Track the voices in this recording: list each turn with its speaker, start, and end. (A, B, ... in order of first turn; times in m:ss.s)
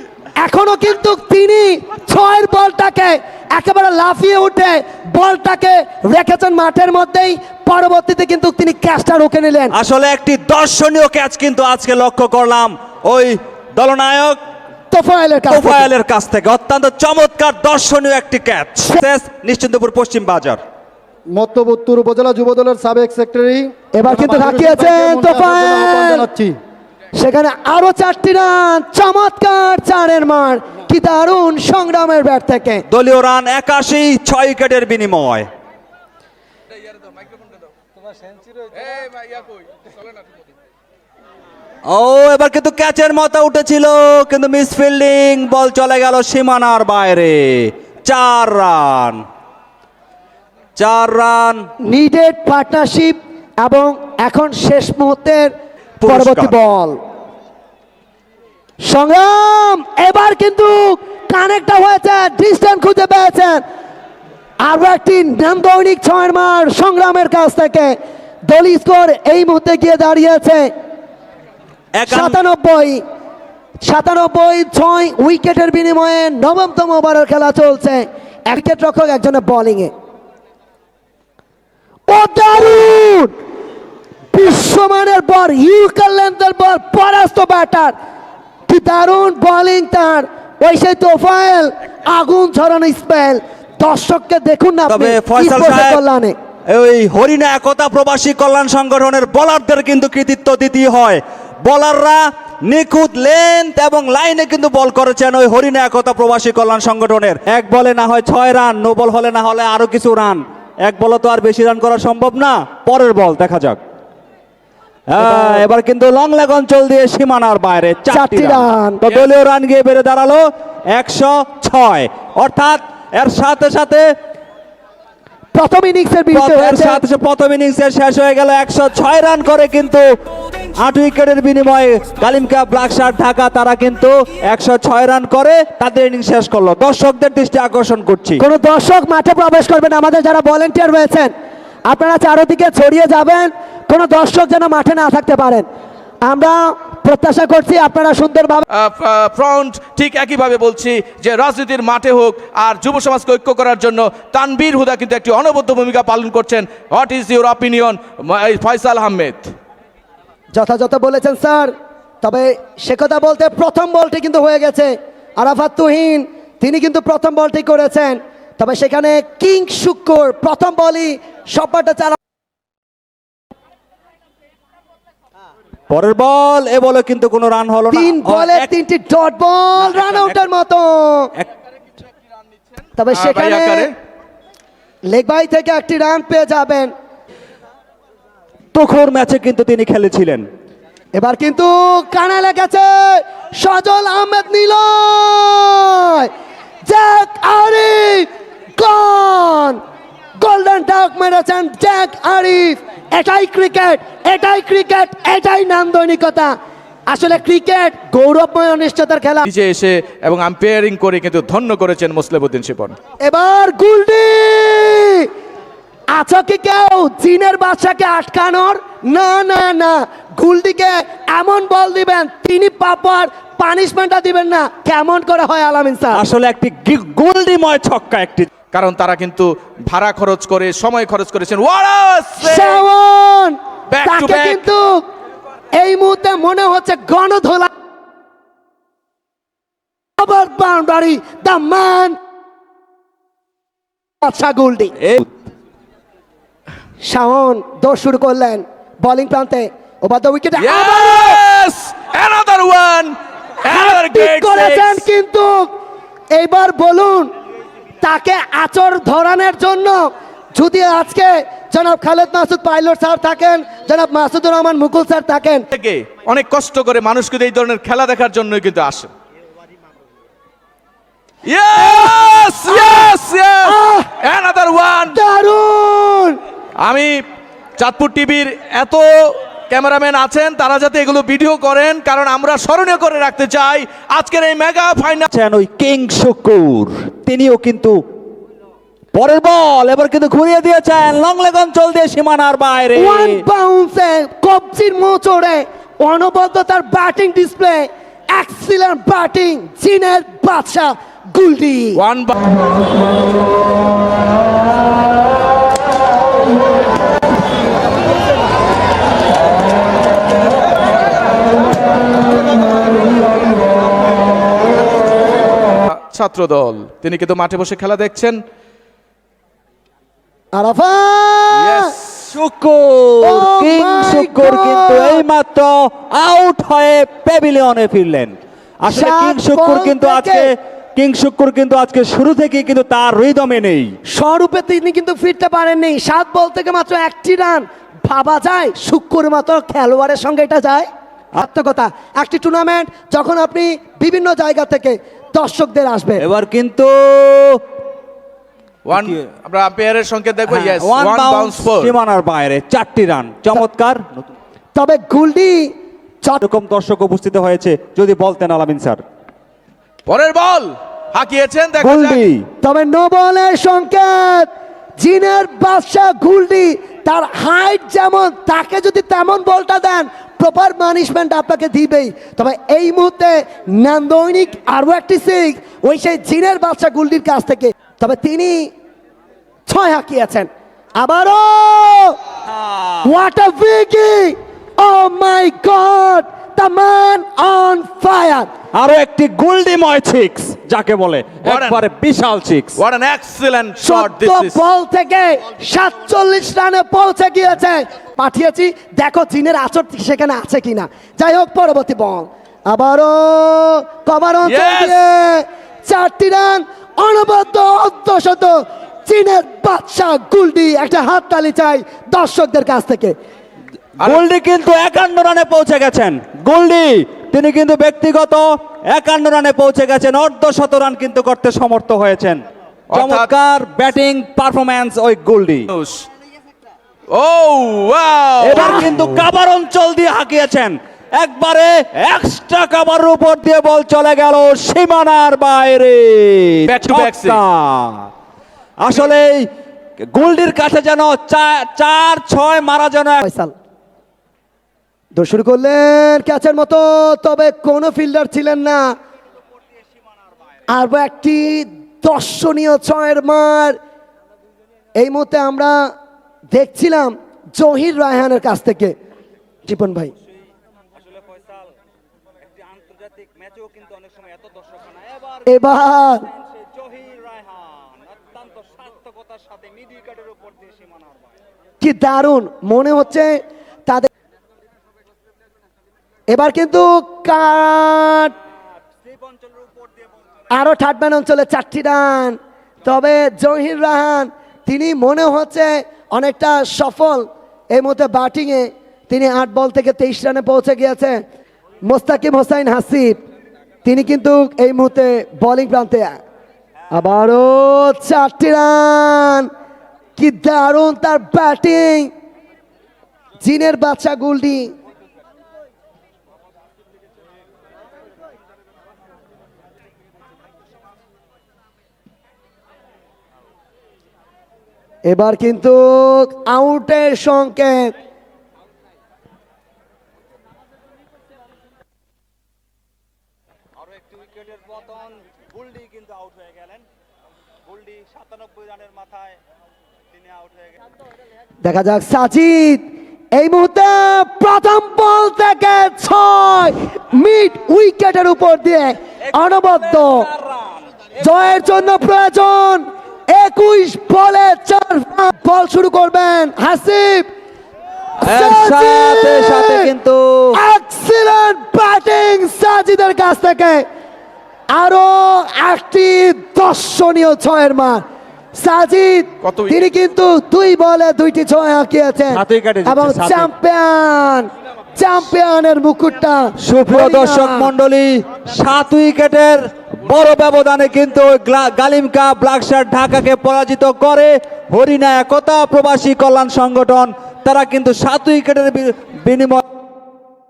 0:00.4-0:09.8 A
0:09.7-0:14.4 B
0:14.9-0:15.9 A
0:15.5-0:20.6 B
0:21.3-0:26.6 C
0:23.9-0:26.3 A
0:27.2-0:32.8 A
0:32.9-0:35.5 B
0:38.8-0:39.6 D
0:41.9-0:49.2 B
0:50.8-0:51.6 B
0:51.9-0:55.5 A
0:56.0-0:56.5 B
0:56.0-0:57.0 A
0:58.8-1:03.6 A
1:04.6-1:08.0 A
1:08.5-1:10.7 A
1:12.0-1:12.4 B
1:12.1-1:13.0 A
1:13.8-1:19.9 A
1:22.1-1:23.3 A
1:24.3-1:27.9 A
1:28.7-1:36.3 A
1:34.9-1:36.0 B
1:36.7-1:53.8 B
1:55.1-2:04.1 B
1:58.1-1:59.0 A
2:05.5-2:07.0 A
2:06.3-2:10.0 B
2:10.8-2:18.4 B
2:18.4-2:21.3 A
2:21.9-2:25.7 A
2:26.3-2:28.6 A
2:28.7-2:39.6 D
2:40.5-2:52.2 A
2:55.9-2:58.7 B
2:57.9-3:01.3 A
2:59.8-3:00.4 B
3:03.0-3:03.9 A
3:03.1-3:04.0 D
3:05.1-3:06.9 A
3:08.7-3:10.4 B
3:11.2-3:16.3 A
3:16.9-3:19.8 A
3:20.4-3:26.6 A
3:27.1-3:29.4 A
3:29.4-3:33.0 D
3:33.2-3:35.3 A
3:36.1-3:46.2 A
3:46.1-3:48.5 B
3:48.7-3:52.8 D
3:52.4-3:55.0 A
3:53.9-3:54.6 D
3:55.7-3:57.7 A
4:00.2-4:02.2 A
4:04.2-4:05.0 A
4:05.0-4:05.3 B
4:07.0-4:11.4 A
4:10.6-4:15.0 D
4:13.6-4:15.7 A
4:16.3-4:17.3 A
4:18.0-4:25.6 A
4:25.7-4:29.1 D
4:31.5-4:35.2 D
4:31.8-4:34.1 A
4:35.1-4:36.4 A
4:36.8-4:37.2 D
4:37.8-4:45.3 D
4:45.3-4:48.0 B
4:49.1-4:53.4 B
4:53.0-5:02.0 A
5:02.0-5:02.3 D
5:15.9-5:18.4 D
5:20.6-5:21.9 A
5:21.6-5:22.3 D
5:22.3-5:34.0 B
5:23.2-5:25.2 A
5:28.9-5:30.5 A
5:34.1-5:46.2 A
5:46.2-5:47.6 B
5:48.9-5:51.9 D
5:48.9-5:49.2 B
5:50.5-5:54.3 B
5:54.8-5:56.4 A
5:56.4-5:59.0 B
6:00.1-6:02.2 D
6:01.8-6:02.5 B
6:02.6-6:18.7 A
6:19.7-6:22.2 A
6:22.5-6:23.1 B
6:23.0-6:28.5 A
6:28.8-6:32.8 B
6:31.4-6:31.8 D
6:32.8-6:34.6 D
6:33.8-6:53.1 A
6:44.4-6:45.0 D
6:54.0-7:05.7 B
7:02.9-7:03.3 D
7:05.7-7:06.1 D
7:07.1-7:08.9 D
7:08.4-7:18.1 B
7:16.7-7:17.4 D
7:18.8-7:19.5 B
7:20.1-7:23.2 B
7:23.2-7:23.5 A
7:25.2-7:28.9 A
7:30.7-7:33.8 A
7:35.0-7:35.8 A
7:36.5-7:39.0 A
7:39.7-7:40.1 A
7:41.0-7:41.7 B
7:42.4-7:51.3 B
7:45.5-7:46.3 A
7:51.8-7:54.1 A
7:56.3-7:58.3 A
7:58.9-8:00.1 B
8:00.5-8:11.2 A
8:11.9-8:13.2 A
8:13.8-8:16.2 A
8:16.9-8:19.5 A
8:20.2-8:22.1 A
8:23.4-8:24.7 A
8:35.1-8:37.9 A
8:43.9-8:46.8 B
8:47.7-8:49.4 B
8:50.2-8:50.7 B
8:51.6-9:00.3 A
8:59.6-9:00.7 B
9:01.2-9:07.3 A
9:08.2-9:09.9 A
9:08.2-9:10.6 B
9:10.6-9:13.8 A
9:14.7-9:18.0 A
9:18.6-9:27.7 A
9:19.4-9:19.8 D
9:22.3-9:23.5 B
9:26.6-9:39.6 B